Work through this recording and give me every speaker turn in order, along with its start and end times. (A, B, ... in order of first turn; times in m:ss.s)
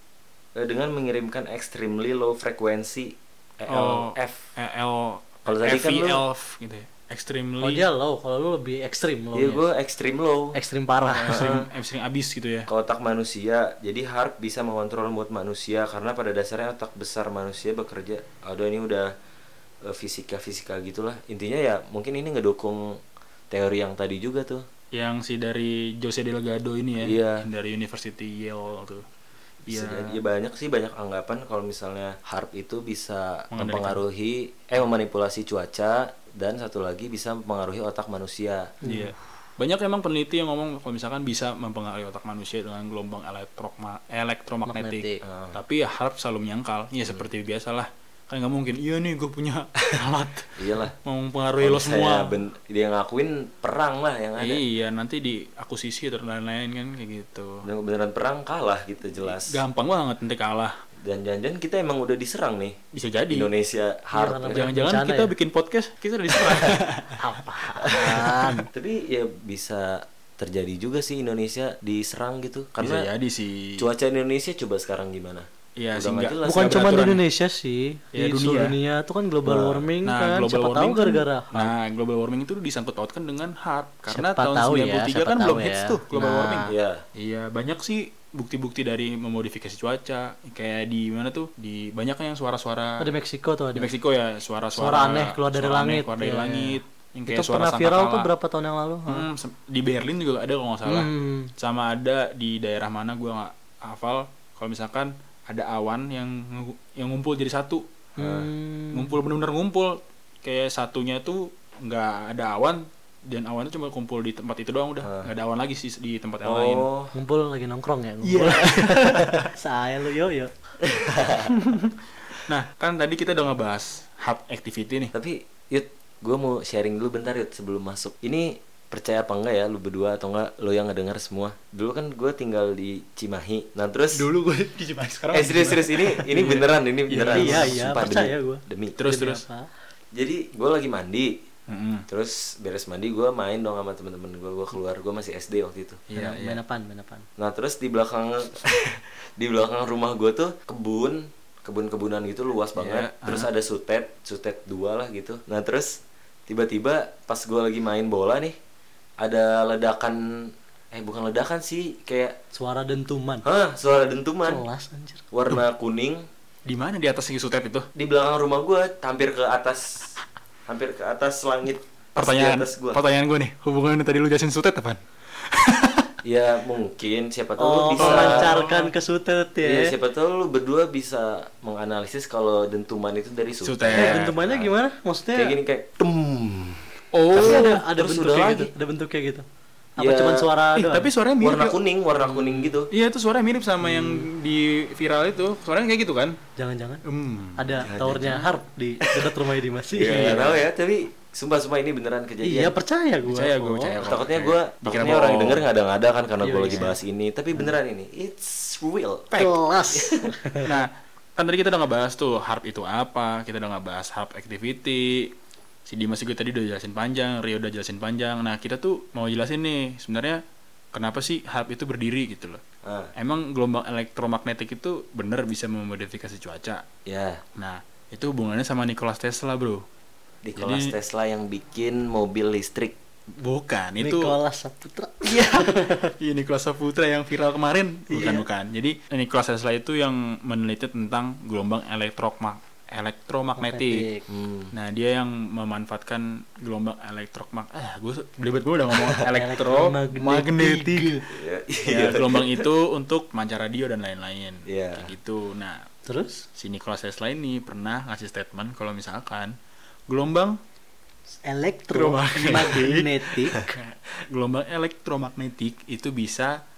0:00.6-0:04.5 A
0:03.7-0:07.8 B
0:05.5-0:06.2 A
0:07.6-0:09.6 C
0:09.3-0:10.6 A
0:10.5-0:11.5 C
0:11.1-0:12.7 B
0:11.3-0:11.7 A
0:12.7-0:19.1 A
0:19.8-0:24.6 A
0:24.9-0:29.0 B
0:27.0-0:27.5 A
0:29.7-0:30.2 B
0:29.7-0:38.7 A
0:33.5-0:34.0 B
0:38.8-0:39.1 C
0:38.8-0:52.4 B
0:44.7-0:45.2 C
0:45.2-0:45.6 A
0:50.6-0:51.0 A
0:51.6-0:54.6 A
0:54.4-0:57.7 B
0:57.6-0:59.6 A
0:59.2-1:00.8 B
1:01.0-1:02.8 A
1:02.9-1:03.5 B
1:03.3-1:04.7 A
1:04.1-1:05.3 C
1:04.5-1:07.3 B
1:06.4-1:06.8 A
1:07.2-1:08.7 C
1:07.8-1:08.2 A
1:07.8-1:08.7 B
1:08.7-1:13.1 A
1:12.8-1:13.9 B
1:13.8-1:17.1 A
1:15.8-1:17.2 B
1:16.4-1:21.7 C
1:18.1-1:18.8 B
1:19.4-1:19.9 A
1:20.0-1:33.1 B
1:24.1-1:26.7 C
1:26.7-1:27.0 A
1:33.0-1:33.9 C
1:33.8-1:38.3 B
1:34.8-1:39.3 C
1:39.1-1:47.8 B
1:40.9-1:41.5 C
1:48.2-1:49.2 C
1:48.2-1:48.5 A
1:48.9-1:56.9 B
1:55.0-1:55.3 A
1:56.4-1:57.1 A
1:57.1-2:00.6 C
1:58.2-1:59.5 B
2:00.8-2:01.5 A
2:01.5-2:05.1 B
2:05.1-2:14.3 A
2:14.2-2:17.8 B
2:15.3-2:19.0 A
2:17.2-2:19.7 C
2:19.0-2:19.4 B
2:20.2-2:21.3 A
2:21.7-2:22.1 B
2:22.1-2:26.0 A
2:26.1-2:26.6 B
2:26.1-2:27.3 C
2:27.4-2:38.6 A
2:32.8-2:33.5 B
2:39.2-2:42.4 A
2:42.5-2:43.5 C
2:43.4-2:44.6 A
2:44.5-2:45.2 C
2:45.3-2:46.3 A
2:46.7-2:47.9 B
2:48.0-2:50.1 A
2:50.7-2:53.0 A
2:52.2-2:56.1 B
2:56.2-2:58.5 A
2:57.6-3:00.0 C
2:58.0-2:58.9 B
2:59.6-3:04.6 A
3:03.6-3:04.6 B
3:03.9-3:05.6 C
3:05.4-3:08.7 A
3:07.1-3:07.8 B
3:07.4-3:09.5 C
3:10.0-3:11.1 C
3:10.0-3:10.5 A
3:10.7-3:11.8 B
3:11.4-3:12.9 A
3:12.2-3:12.8 C
3:12.9-3:16.4 B
3:13.8-3:14.3 C
3:16.6-3:17.0 C
3:17.1-3:17.8 B
3:17.6-3:20.5 C
3:17.8-3:22.7 A
3:20.0-3:20.6 B
3:22.4-3:24.0 C
3:23.2-3:25.6 B
3:24.0-3:29.3 A
3:26.4-3:27.0 C
3:29.3-3:29.6 B
3:29.4-3:30.8 C
3:29.9-3:30.3 A
3:30.6-3:35.3 B
3:35.9-3:40.4 B
3:40.9-3:42.6 B
3:42.8-3:43.1 A
3:43.2-3:46.8 B
3:47.1-3:47.4 A
3:47.6-3:49.8 B
3:50.4-3:53.0 A
3:50.6-3:50.9 B
3:53.4-3:54.4 B
3:54.0-3:56.1 C
3:55.2-4:04.0 B
3:58.1-3:58.5 C
4:03.6-4:04.3 C
4:04.3-4:04.7 A
4:04.7-4:11.3 B
4:09.2-4:11.3 C
4:11.3-4:12.7 A
4:11.8-4:15.9 B
4:14.7-4:15.1 A
4:16.0-4:16.5 C
4:16.6-4:19.6 B
4:20.1-4:20.6 B
4:21.3-4:23.7 C
4:21.9-4:26.6 B